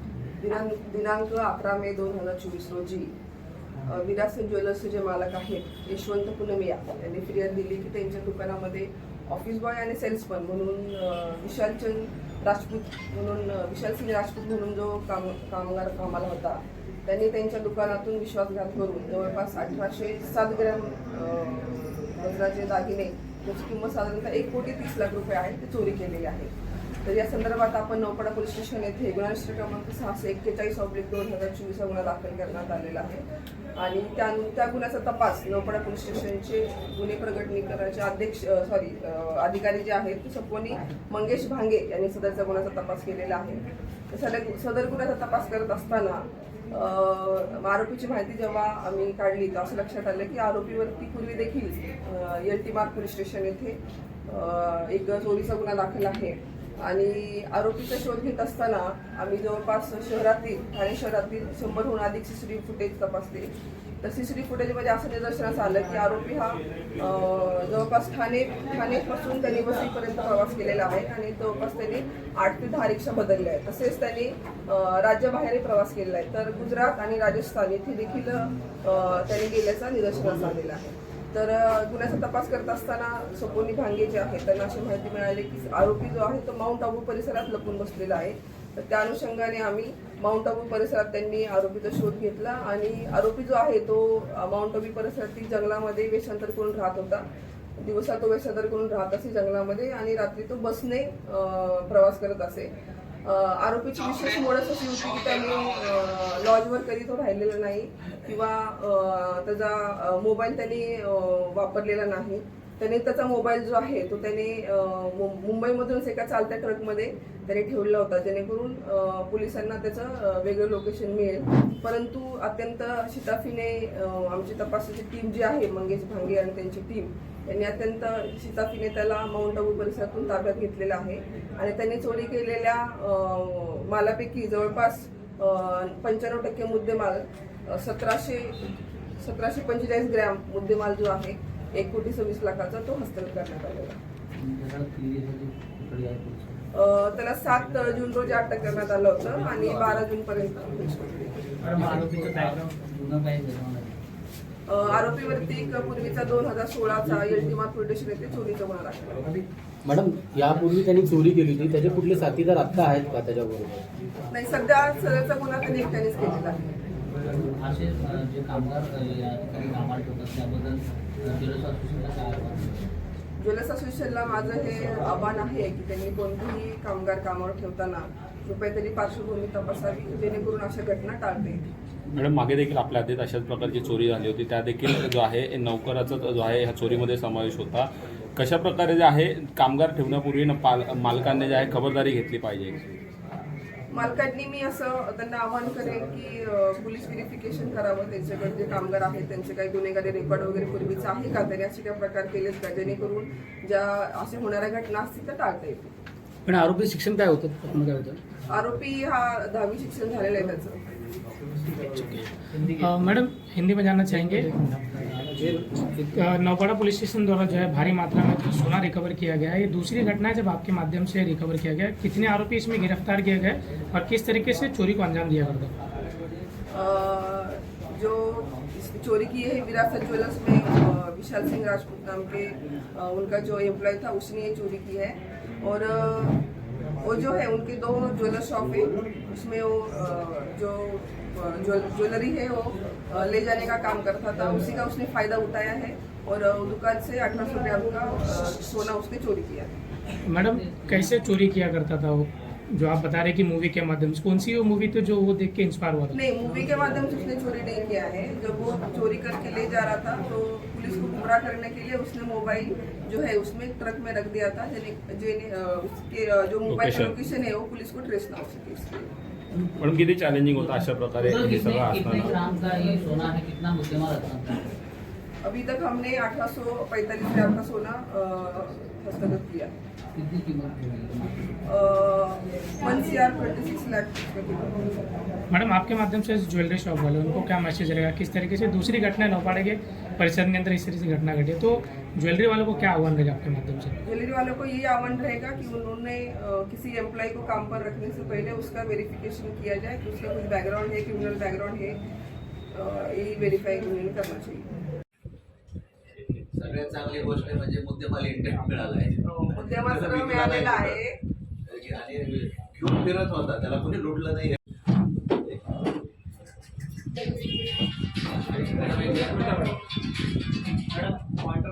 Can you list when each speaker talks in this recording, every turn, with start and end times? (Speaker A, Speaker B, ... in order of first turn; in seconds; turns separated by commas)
Speaker A: 0.4-3.1, Speaker A: 3.9-26.5, Speaker A: 27.1-33.2, Speaker A: 33.8-97.3, Speaker A: 97.8-102.7, Speaker A: 103.2-144.0, Speaker B: 144.4-146.7, Speaker A: 146.7-151.5, Speaker B: 151.6-154.0, Speaker A: 154.7-159.4, Speaker C: 159.8-163.9, Speaker A: 164.3-166.6, Speaker B: 167.4-172.9, Speaker A: 173.4-181.7, Speaker D: 182.2-193.0, Speaker A: 193.9-205.9, Speaker C: 206.5-208.1, Speaker A: 208.5-210.8, Speaker E: 211.8-214.5, Speaker C: 214.3-214.5, Speaker C: 215.2-216.2, Speaker E: 216.1-225.7, Speaker A: 226.7-236.4, Speaker A: 237.0-249.7, Speaker E: 250.3-256.2, Speaker B: 250.4-251.3, Speaker A: 256.1-269.1, Speaker D: 266.7-267.1, Speaker B: 269.5-274.8, Speaker D: 269.8-272.4, Speaker A: 275.4-279.7, Speaker B: 280.1-281.6, Speaker A: 281.7-285.0, Speaker E: 285.5-293.9, Speaker A: 294.0-302.0, Speaker A: 302.7-304.6, Speaker F: 306.5-311.0, Speaker A: 309.2-311.2, Speaker F: 311.7-314.6, Speaker F: 318.6-319.6